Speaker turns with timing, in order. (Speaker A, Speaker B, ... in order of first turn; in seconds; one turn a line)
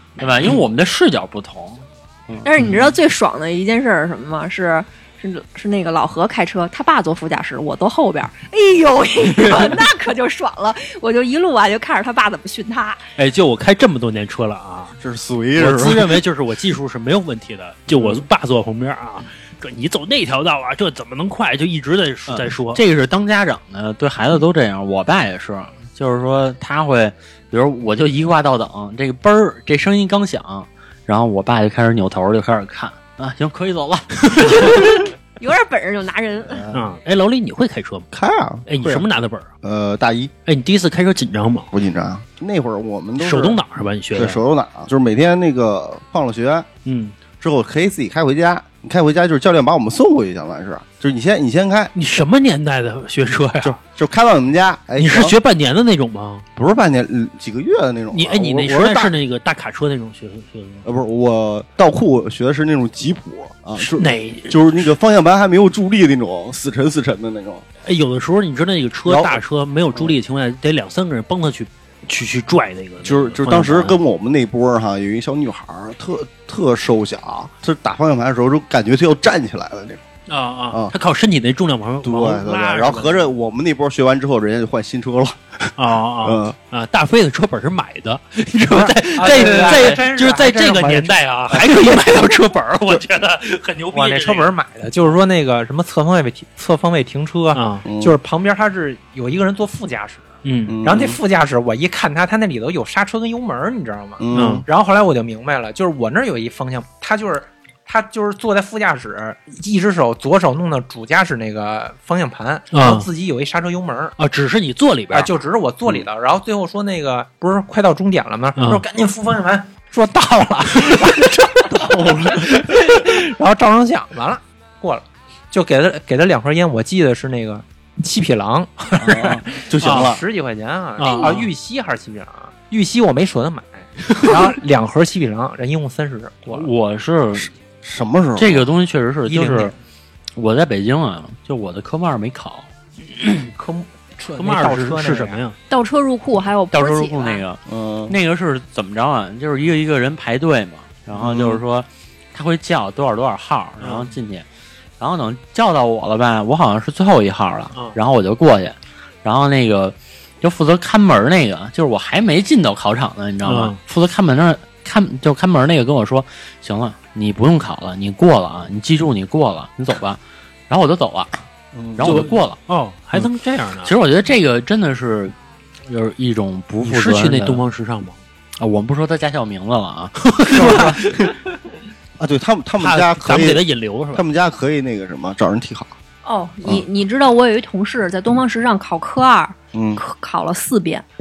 Speaker A: 0.2-2.5
Speaker B: 2.4-13.0
Speaker C: 13.2-15.0
Speaker D: 15.0-16.2
Speaker C: 15.6-22.8
Speaker A: 22.3-34.7
Speaker B: 34.5-36.7
Speaker D: 36.5-36.9
Speaker C: 36.7-38.1
Speaker D: 38.1-39.1
Speaker C: 38.7-39.5
Speaker D: 39.6-40.3
Speaker C: 40.5-41.7
Speaker D: 41.7-43.6
Speaker C: 43.2-44.4
Speaker D: 44.1-46.7
Speaker C: 46.9-47.1
Speaker D: 47.4-51.9
Speaker C: 52.0-53.8
Speaker D: 53.6-55.4
Speaker C: 55.0-56.5
Speaker D: 56.6-59.1
Speaker C: 58.1-60.9
Speaker D: 60.9-67.6
Speaker C: 63.8-64.9
Speaker C: 67.8-74.0
Speaker D: 69.1-69.4
Speaker D: 73.0-80.0
Speaker C: 80.3-83.3
Speaker D: 82.0-86.5
Speaker C: 85.8-94.5
Speaker E: 88.7-91.9
Speaker E: 93.9-100.3
Speaker C: 97.5-97.8
Speaker D: 97.8-98.2
Speaker C: 100.4-100.8
Speaker D: 100.7-101.2
Speaker E: 100.8-114.2
Speaker D: 104.2-104.7
Speaker C: 104.3-104.7
Speaker C: 112.7-113.1
Speaker C: 114.2-115.3
Speaker E: 115.1-136.7
Speaker C: 118.6-118.8
Speaker D: 122.0-122.4
Speaker D: 129.0-130.2
Speaker C: 129.8-130.2
Speaker C: 131.0-131.5
Speaker A: 136.5-137.5
Speaker D: 137.5-138.7
Speaker A: 138.4-139.7
Speaker E: 139.3-139.8
Speaker A: 140.3-142.7
Speaker C: 143.2-143.5
Speaker E: 143.6-145.4
Speaker C: 144.4-145.6
Speaker B: 145.7-147.4
Speaker A: 146.7-154.5
Speaker D: 147.7-148.2
Speaker D: 151.2-151.6
Speaker C: 153.8-154.1
Speaker A: 155.0-171.4
Speaker C: 163.4-163.8
Speaker D: 171.7-172.3
Speaker A: 171.9-172.6
Speaker C: 172.0-173.9
Speaker A: 173.8-175.4
Speaker A: 175.9-177.6
Speaker C: 176.8-178.2
Speaker A: 178.6-181.0
Speaker C: 180.2-181.3
Speaker D: 180.6-181.0
Speaker D: 182.2-183.6
Speaker C: 182.8-184.2
Speaker D: 184.1-185.9
Speaker B: 186.2-191.1
Speaker D: 189.7-190.0